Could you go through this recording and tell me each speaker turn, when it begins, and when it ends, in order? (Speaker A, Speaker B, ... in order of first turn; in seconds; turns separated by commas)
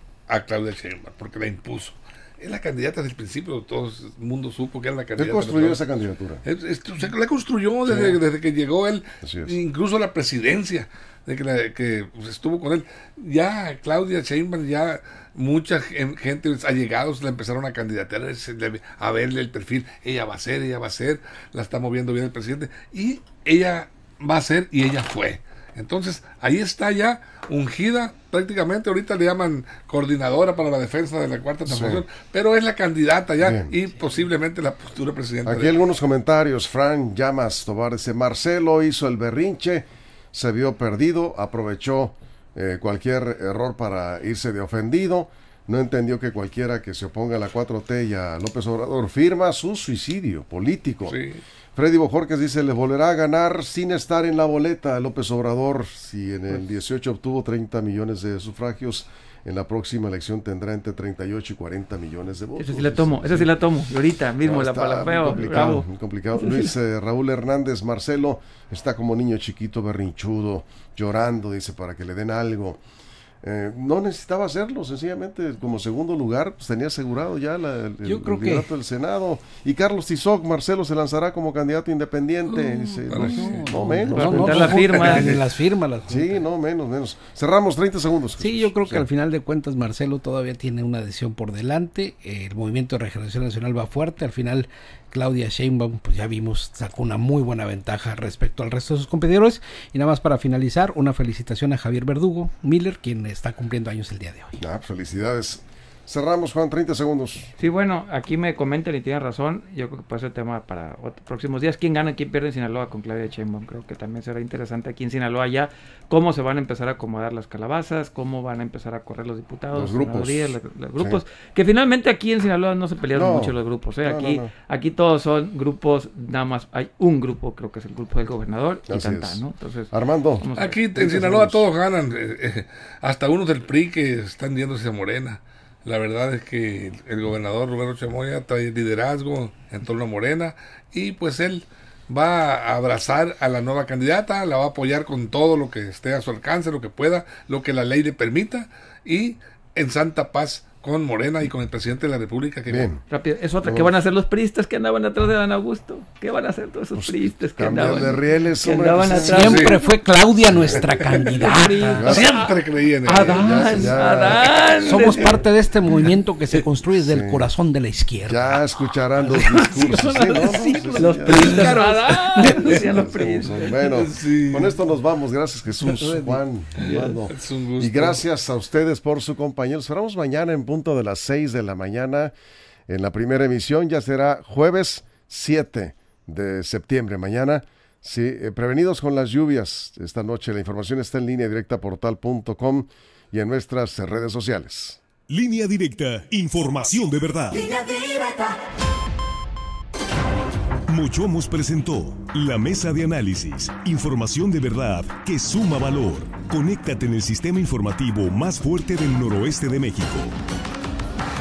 Speaker A: 0.3-5.8, Speaker B: 5.2-6.4, Speaker A: 6.4-35.8, Speaker B: 7.8-8.2, Speaker B: 9.2-9.5, Speaker B: 31.6-32.0, Speaker B: 33.4-33.7, Speaker B: 35.4-51.2, Speaker A: 51.1-51.4, Speaker B: 51.7-63.5, Speaker C: 62.6-65.8, Speaker B: 64.4-72.8, Speaker D: 65.4-65.7, Speaker C: 66.4-66.7, Speaker B: 73.4-84.8, Speaker D: 78.0-78.7, Speaker A: 82.5-85.4, Speaker D: 82.6-86.4, Speaker C: 84.1-85.3, Speaker B: 86.1-89.1, Speaker D: 88.4-104.6, Speaker B: 104.6-107.5, Speaker C: 107.6-130.8, Speaker B: 119.7-121.2, Speaker B: 123.1-124.5, Speaker B: 128.9-131.6, Speaker A: 130.6-152.9, Speaker B: 152.7-153.0, Speaker C: 153.1-159.7, Speaker B: 153.6-153.9, Speaker B: 156.9-159.7, Speaker D: 158.9-162.1, Speaker A: 159.4-159.8, Speaker B: 160.5-161.3, Speaker C: 161.3-162.5, Speaker B: 161.8-162.3, Speaker A: 162.0-163.7, Speaker C: 163.1-165.3, Speaker D: 163.1-164.0, Speaker B: 163.1-164.5, Speaker D: 164.8-168.7, Speaker B: 166.9-167.5, Speaker B: 168.3-171.8, Speaker D: 169.2-173.0, Speaker C: 170.9-173.8, Speaker B: 172.5-182.3, Speaker A: 173.9-174.7, Speaker D: 175.9-176.4, Speaker A: 176.8-178.2, Speaker B: 182.9-195.0, Speaker E: 195.3-198.4, Speaker E: 200.9-210.4